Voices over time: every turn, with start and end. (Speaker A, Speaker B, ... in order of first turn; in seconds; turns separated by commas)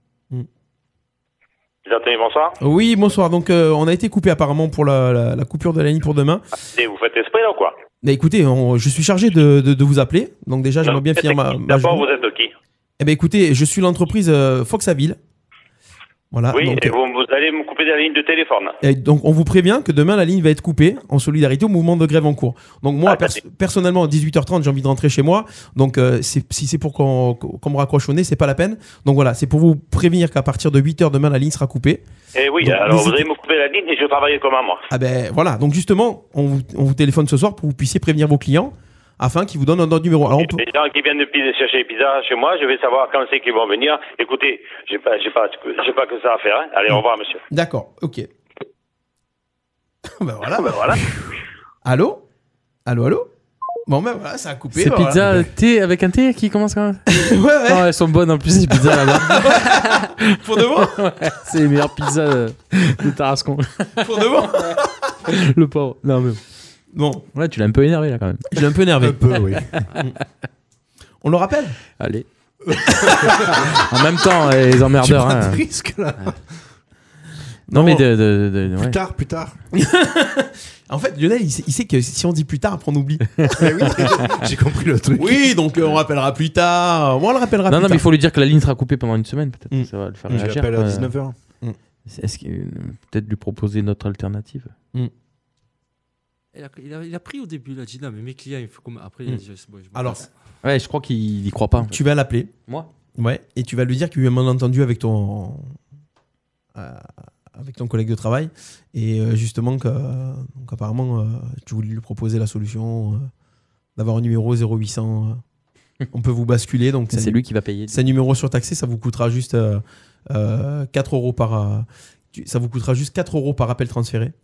Speaker A: 1.9-2.5, Speaker B: 2.6-6.4, Speaker A: 6.7-7.7, Speaker B: 8.0-12.1, Speaker A: 10.8-12.5, Speaker B: 13.0-15.2, Speaker B: 16.3-16.9, Speaker A: 16.5-18.7, Speaker B: 18.8-32.0, Speaker A: 23.1-23.4, Speaker A: 32.4-34.8, Speaker B: 32.6-33.3, Speaker B: 34.9-40.6, Speaker A: 40.3-47.4, Speaker B: 46.9-48.3, Speaker B: 50.2-51.2, Speaker A: 50.5-51.0, Speaker B: 51.8-52.2, Speaker B: 52.9-53.3, Speaker B: 53.9-55.5, Speaker C: 54.7-57.0, Speaker B: 57.1-57.9, Speaker C: 57.6-64.1, Speaker B: 58.8-61.0, Speaker B: 64.0-64.9, Speaker C: 65.3-66.4, Speaker B: 66.9-67.2, Speaker C: 67.3-68.6, Speaker B: 68.5-69.2, Speaker D: 69.0-69.9, Speaker B: 71.2-71.8, Speaker C: 72.0-72.2, Speaker D: 72.8-73.7, Speaker C: 73.9-75.6, Speaker D: 74.9-76.4, Speaker B: 77.7-78.0, Speaker C: 77.7-79.0, Speaker D: 78.7-79.6, Speaker B: 79.7-84.0, Speaker D: 83.5-85.6, Speaker B: 85.2-88.0, Speaker C: 87.7-91.1, Speaker D: 90.3-91.3, Speaker C: 92.1-94.7, Speaker E: 96.5-100.3, Speaker B: 99.9-100.3, Speaker C: 100.6-102.0, Speaker B: 101.8-102.5, Speaker B: 103.2-105.8, Speaker B: 106.7-113.3, Speaker B: 114.0-115.4, Speaker B: 116.1-124.3, Speaker C: 117.1-118.0